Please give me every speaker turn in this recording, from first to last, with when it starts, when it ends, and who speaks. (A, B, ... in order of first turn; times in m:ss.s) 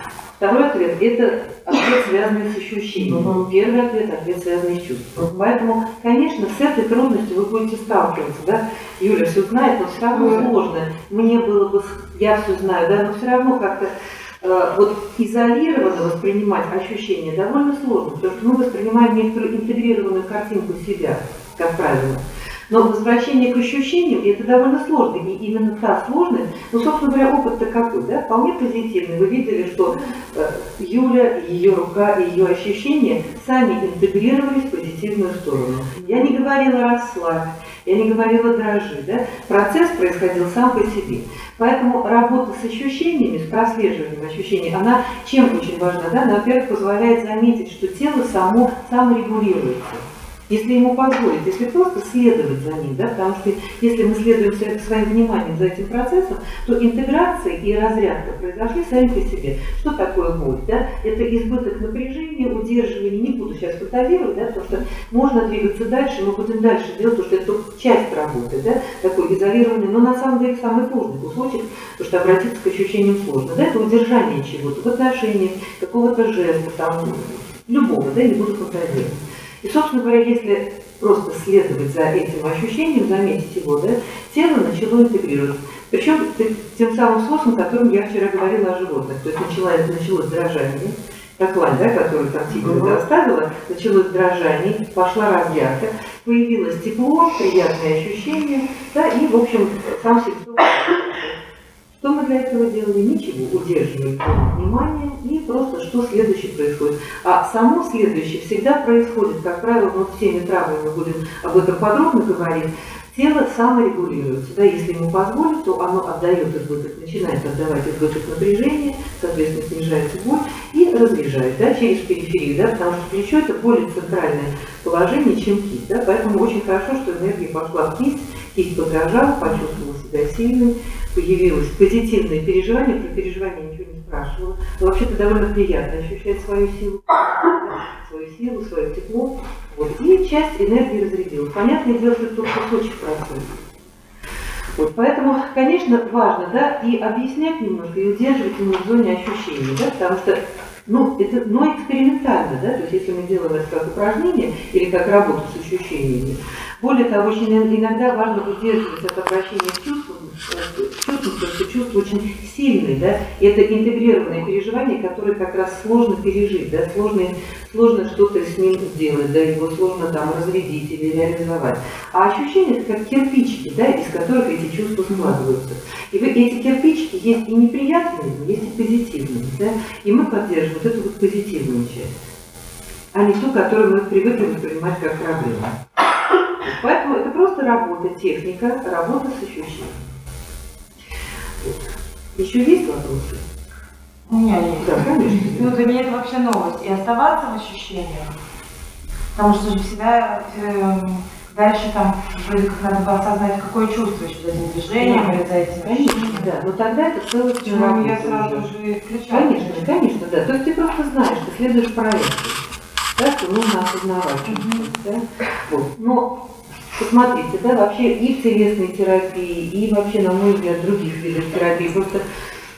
0:00.4-1:41.4 A
0:10.2-0:10.5 B
1:42.0-2:23.6 A
2:24.8-3:02.1 A
3:03.1-3:05.8 A
3:06.6-3:10.0 A
3:12.4-3:13.4 A
3:14.3-3:18.4 B
3:14.8-3:15.8 A
3:19.4-3:26.6 B
3:25.0-3:28.7 A
3:27.6-3:30.1 B
3:29.3-3:32.6 A
3:33.2-3:36.3 A
3:34.4-3:34.9 B
3:37.0-3:42.2 A